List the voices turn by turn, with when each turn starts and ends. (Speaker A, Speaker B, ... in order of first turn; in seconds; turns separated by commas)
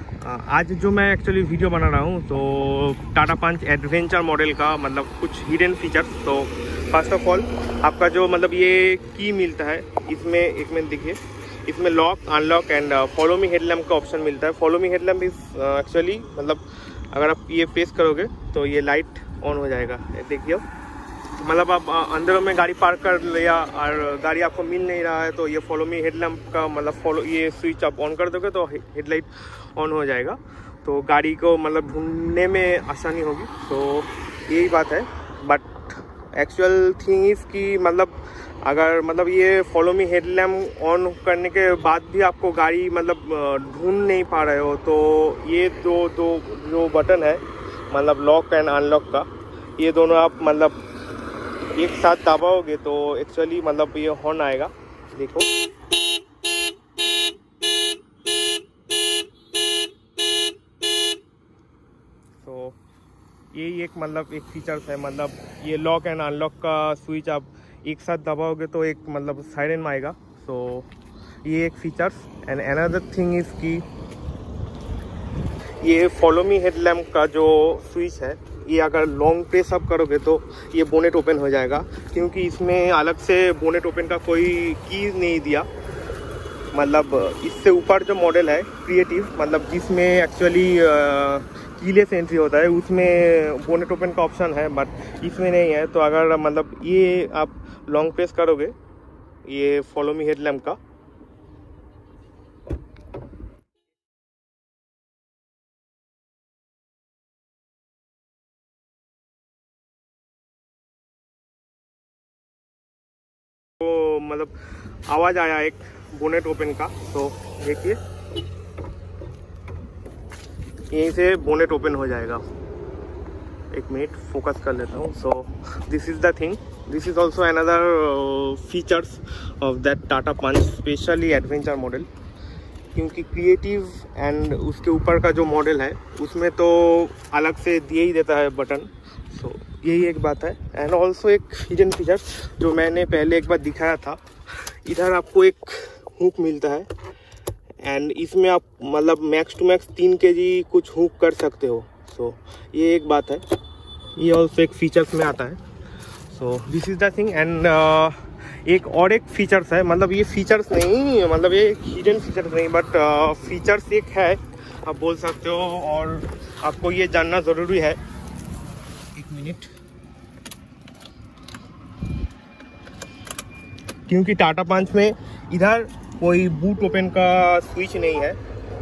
Speaker A: 0.2-20.6, Speaker A: 21.4-50.8, Speaker A: 51.8-55.5, Speaker A: 62.4-62.8, Speaker A: 63.5-70.9, Speaker A: 71.4-73.8, Speaker A: 75.8-85.7, Speaker A: 86.7-98.8, Speaker A: 99.5-100.8, Speaker A: 113.8-114.6, Speaker A: 115.1-118.0, Speaker A: 120.9-122.4, Speaker A: 123.7-132.1, Speaker A: 132.9-144.2, Speaker A: 144.8-146.9, Speaker A: 147.8-153.4, Speaker A: 154.2-155.6, Speaker A: 156.3-168.0, Speaker A: 169.2-169.7, Speaker A: 174.1-178.4